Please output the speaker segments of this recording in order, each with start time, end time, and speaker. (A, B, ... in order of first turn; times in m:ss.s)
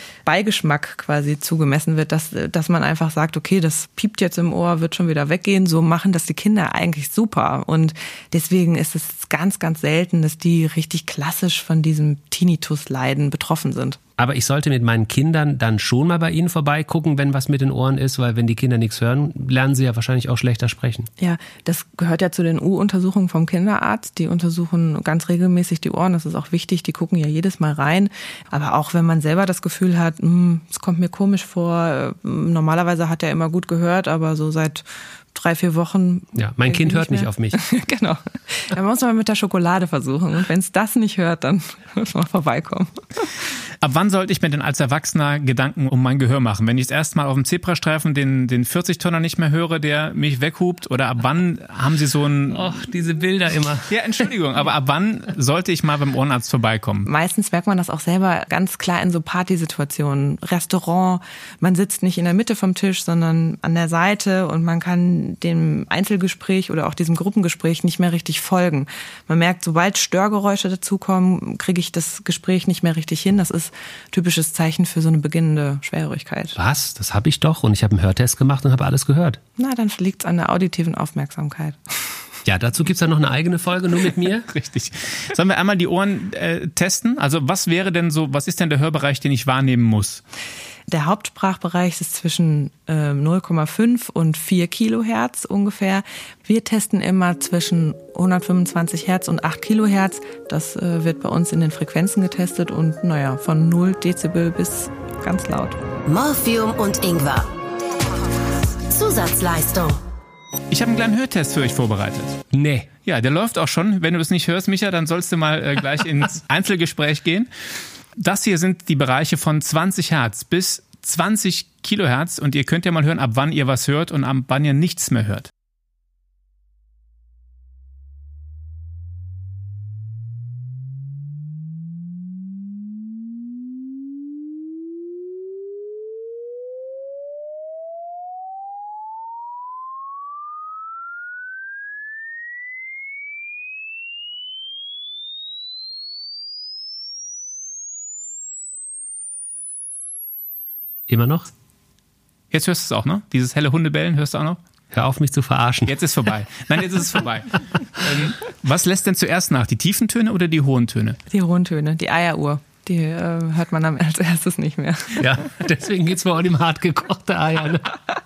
0:00.2-0:14.0 A
0:14.2-0:21.1 B
0:21.2-0:42.9 A
0:36.3-0:37.6 B
0:43.8-0:52.6 C
0:52.5-0:53.9 B
0:53.9-0:57.1 C
0:57.1-1:16.6 A
1:16.6-1:19.4 B
1:19.6-1:21.8 A
1:22.4-1:24.5 B
1:24.5-1:30.2 C
1:30.9-1:45.8 A
1:46.0-1:47.5 D
1:48.9-1:50.0 D
1:50.7-1:52.4 C
1:52.5-1:52.9 B
1:53.0-1:57.5 C
1:58.2-2:05.5 C
2:31.1-2:31.5 B
2:32.5-2:34.6 C
2:34.9-2:36.0 B
2:35.9-2:41.2 C
2:41.3-2:45.2 A
2:45.2-2:48.0 B